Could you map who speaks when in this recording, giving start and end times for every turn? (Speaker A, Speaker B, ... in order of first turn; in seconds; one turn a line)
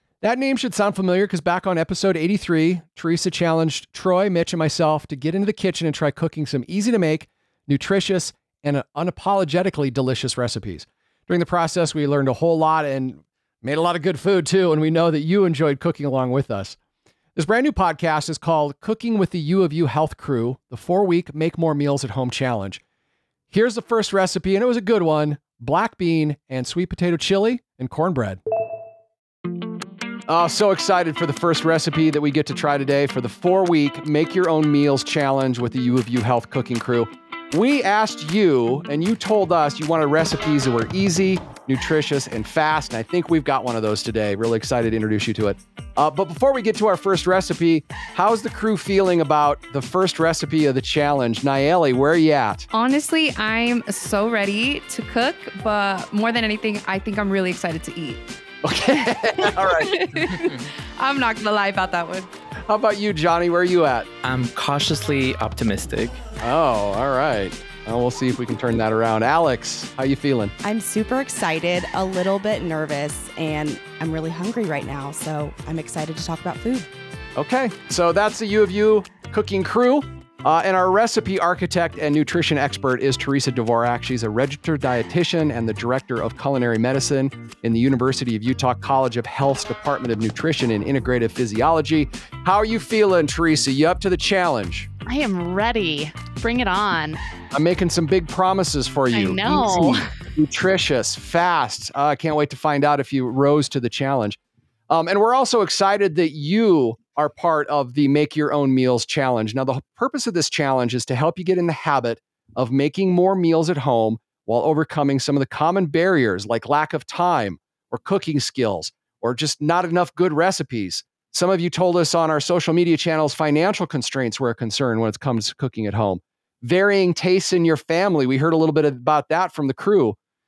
Speaker A: 0.2-16.8
Speaker A: 17.3-22.8
Speaker A: 23.5-28.4
Speaker A: 30.3-52.7
Speaker B: 52.7-58.2
Speaker A: 58.6-60.1
Speaker B: 59.5-62.3
Speaker A: 62.7-64.1
Speaker C: 64.2-66.2
Speaker A: 66.4-70.5
Speaker D: 70.6-76.9
Speaker A: 77.3-94.9
Speaker E: 95.0-97.2
Speaker A: 97.5-104.4
Speaker E: 99.1-100.0
Speaker A: 104.9-130.2